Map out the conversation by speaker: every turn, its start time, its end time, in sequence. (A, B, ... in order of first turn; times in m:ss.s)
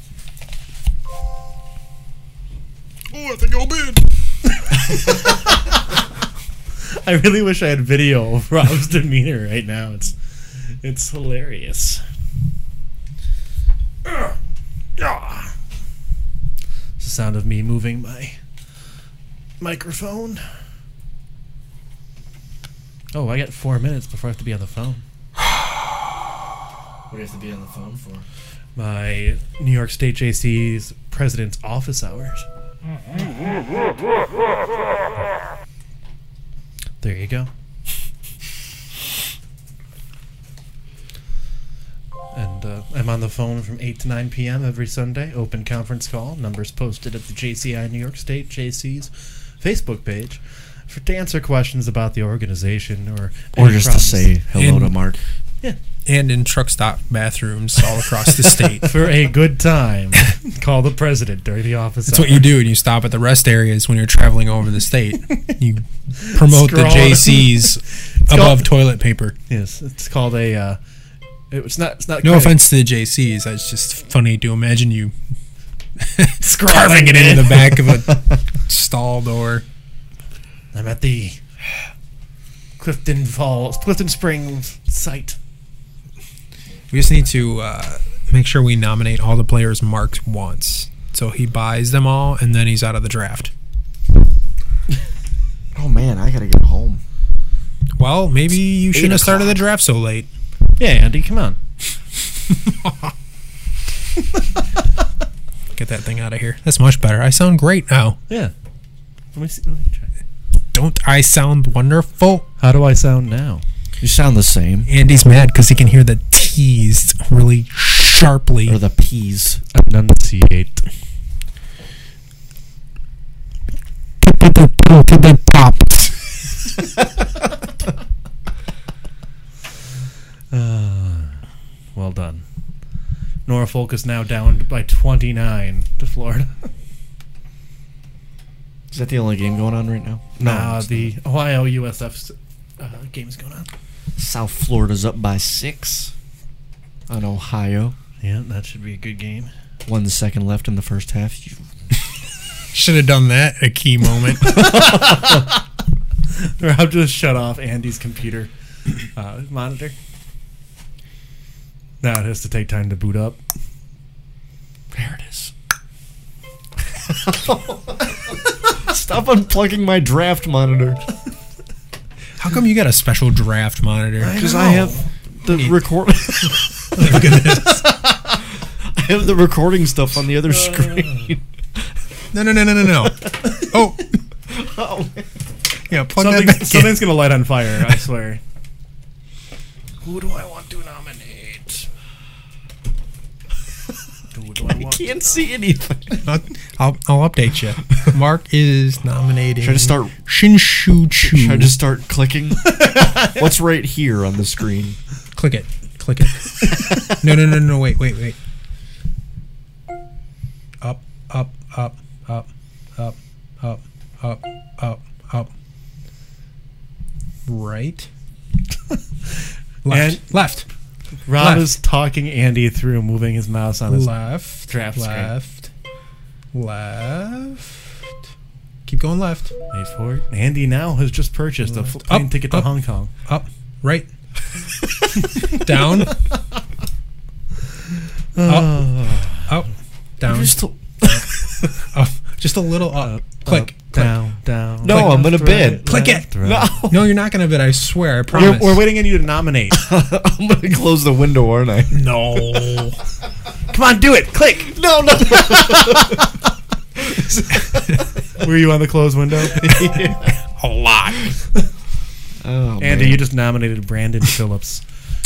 0:03.2-0:04.0 A
0:04.5-0:05.9 B
0:06.8-0:12.0 B
0:14.0-0:14.4 B
0:15.0-0:15.6 B
0:17.0-0:18.4 B
0:19.6-0:20.4 B
0:23.1-0:25.0 B
0:27.1-0:28.2 C
0:28.8-0:32.5 B
0:37.0-0:37.5 B
0:42.3-0:54.3 B
0:53.6-0:55.2 C
0:54.6-0:55.0 A
0:56.1-0:58.9 A
0:58.8-1:02.5 B
1:02.1-1:09.4 A
1:06.2-1:08.7 B
1:09.5-1:10.8 B
1:11.5-1:12.6 B
1:12.2-1:15.1 A
1:16.0-1:19.6 A
1:16.4-1:17.8 B
1:20.7-1:21.4 B
1:22.8-1:25.4 B
1:26.9-1:33.5 A
1:35.7-1:37.0 C
1:38.0-1:40.3 A
1:38.9-1:39.6 C
1:40.8-1:41.6 B
1:42.7-1:43.0 A
1:45.8-1:48.2 A
1:49.3-1:50.1 B
1:50.7-1:52.4 A
1:52.6-1:53.6 B
1:54.0-1:54.9 C
1:54.9-1:58.8 A
1:58.7-1:59.6 C
1:59.7-2:00.9 B
2:04.2-2:06.4 A
2:10.5-2:11.4 B
2:11.9-2:12.4 B
2:13.5-2:16.7 B
2:18.9-2:21.1 C
2:20.4-2:23.7 B
2:24.2-2:26.1 C
2:27.1-2:28.0 C
2:28.2-2:29.5 B
2:29.9-2:31.6 C
2:32.7-2:35.0 A
2:34.4-2:35.7 B
2:36.3-2:38.5 B
2:39.1-2:40.0 B
2:42.0-2:43.4 B
2:44.9-2:45.5 C
2:47.0-2:51.1 C
2:52.4-2:54.8 A
2:54.2-2:55.0 B
2:54.3-2:57.2 C
2:55.5-2:57.9 A
2:58.9-3:01.4 C
3:00.5-3:01.3 B
3:02.3-3:04.2 A
3:04.5-3:05.3 C
3:05.9-3:07.2 A
3:06.2-3:08.4 B
3:10.0-3:11.9 B
3:14.3-3:15.4 B
3:14.6-3:16.2 C
3:16.2-3:21.7 A
3:19.6-3:20.1 C
3:21.2-3:25.0 C
3:22.6-3:23.5 B
3:25.4-3:28.4 A
3:30.8-3:35.5 A
3:37.5-3:38.1 A
3:39.8-3:40.7 A
3:39.9-3:40.2 B
3:41.3-3:44.1 B
3:41.4-3:41.7 A
3:43.9-3:45.7 A
3:44.7-3:45.3 B
3:46.5-3:47.9 A
3:48.9-3:49.5 A
3:49.7-3:53.1 B
3:52.0-3:52.7 A
3:53.2-3:54.1 A
3:55.3-3:56.2 A
3:58.3-3:59.5 B
3:58.4-4:04.1 A
4:00.2-4:01.8 C
4:03.0-4:06.8 B
4:04.8-4:07.1 C
4:04.9-4:05.3 A
4:05.9-4:06.3 A
4:06.9-4:08.9 A
4:08.3-4:09.9 B
4:09.7-4:12.0 C
4:11.9-4:13.0 A
4:13.7-4:16.3 B
4:14.7-4:16.3 C
4:17.0-4:18.0 C
4:17.1-4:17.7 B
4:18.4-4:19.7 B
4:19.5-4:20.4 C
4:19.7-4:21.3 A
4:22.4-4:23.2 C
4:22.8-4:24.8 B